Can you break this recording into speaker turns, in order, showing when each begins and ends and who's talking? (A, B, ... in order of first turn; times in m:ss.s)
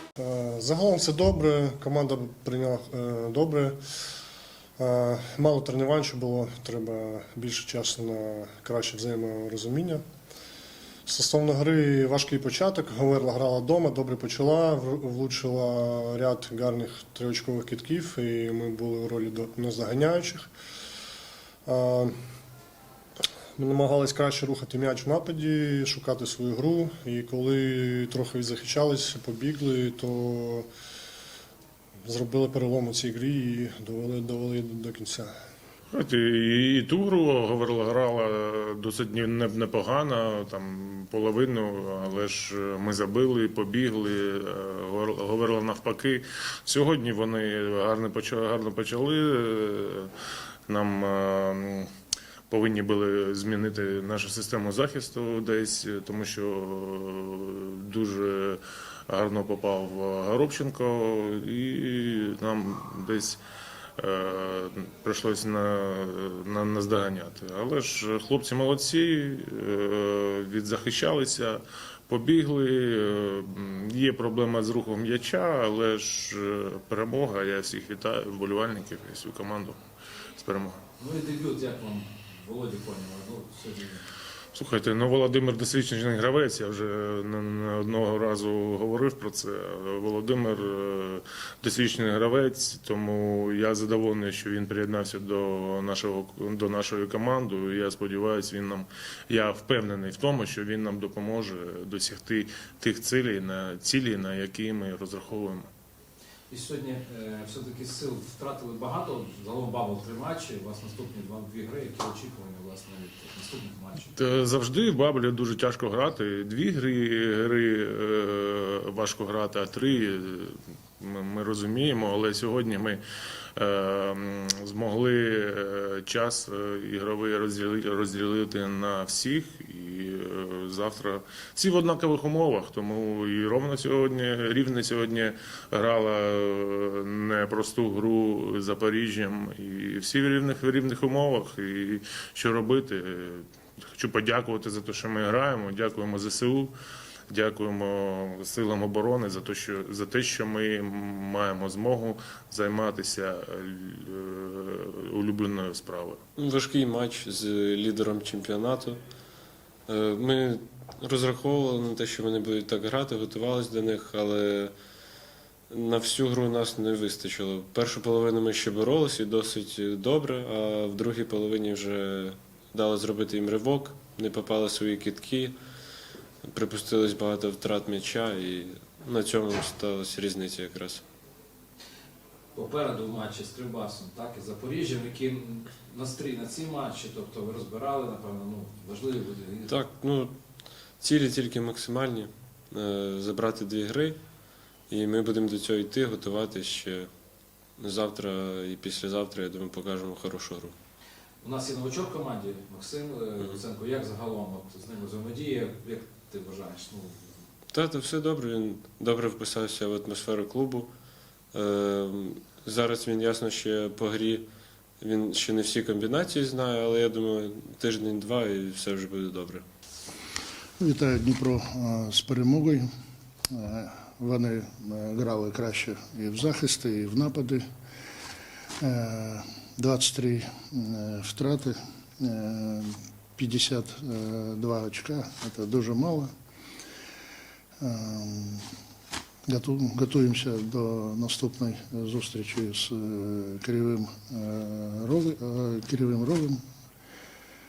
0:00.2-0:03.8 A
0:04.8-0:10.0 A
0:11.0-0:20.5 A
0:21.6-0:22.1 A
0:23.6-0:30.7 A
0:32.0-0:35.3 A
0:35.9-0:50.1 B
0:50.7-0:51.9 B
0:52.5-1:03.4 B
1:04.0-1:19.8 B
1:20.4-1:20.8 B
1:21.0-1:24.0 C
1:24.5-1:45.6 B
1:46.5-1:54.1 C
1:54.1-2:03.0 B
2:03.6-2:26.7 B
2:27.3-2:36.2 B
2:36.4-2:39.0 D
2:39.9-2:44.7 D
2:45.7-2:55.6 D
2:56.4-3:01.0 D
3:02.5-3:09.7 C
3:09.7-3:10.3 D
3:11.0-3:14.2 D
3:14.9-3:17.1 D
3:17.8-3:20.7 D
3:21.4-3:27.3 C
3:27.7-3:30.9 D
3:31.5-3:34.4 D
3:35.0-3:39.6 D
3:40.8-3:42.9 E
3:43.5-3:47.6 E
3:48.8-3:56.3 E
3:57.8-3:58.6 E
3:59.5-4:06.6 E